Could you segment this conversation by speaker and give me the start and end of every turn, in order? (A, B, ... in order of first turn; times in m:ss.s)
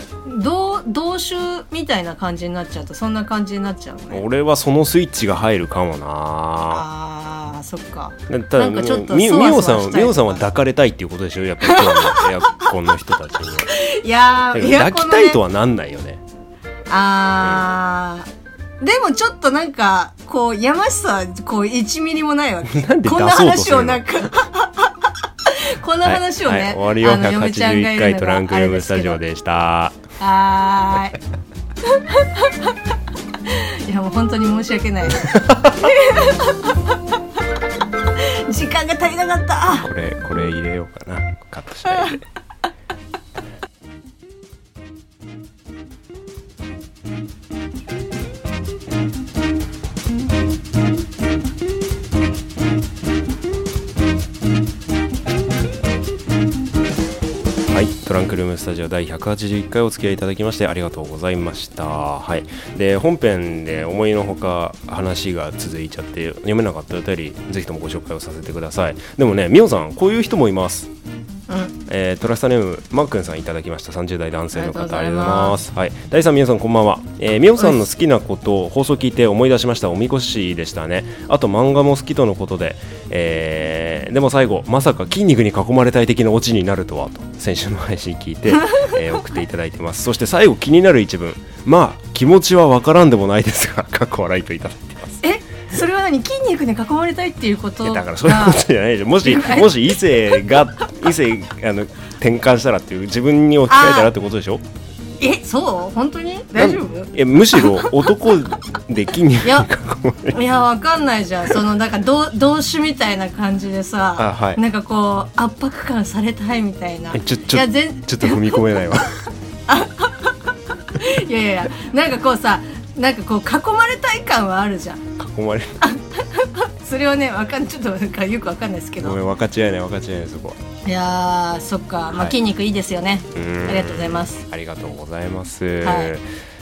0:00.2-0:04.2 A
0:04.1-0:06.9 B
0:06.7-0:10.4 A
0:08.3-0:13.7 B
0:11.6-0:12.7 A
0:13.7-0:15.4 A
0:14.5-0:16.2 B
0:16.9-0:18.3 A
0:18.8-0:29.2 A
0:22.7-0:24.1 B
0:26.0-0:30.0 B
0:30.2-0:31.2 A
0:31.8-0:32.8 A
0:33.4-0:37.2 A
0:35.2-0:35.9 B
0:38.2-0:39.9 A
0:39.8-0:42.2 B
0:41.9-0:42.2 A
0:57.7-1:10.9 B
1:11.5-1:11.8 A
1:11.9-1:35.2 B
1:14.5-1:15.6 A
1:28.5-1:29.0 A
1:35.2-1:38.6 A
1:37.8-1:44.6 B
1:39.2-1:40.0 A
1:43.7-1:44.1 A
1:45.2-1:48.1 A
1:46.6-1:50.4 B
1:50.3-1:58.6 A
1:54.2-1:54.6 B
1:57.1-1:59.3 B
1:59.7-2:05.0 A
2:05.2-2:05.8 B
2:05.8-2:09.2 A
2:09.0-2:10.6 B
2:10.8-2:14.4 A
2:12.1-2:12.4 B
2:13.4-2:16.3 B
2:15.8-2:16.1 A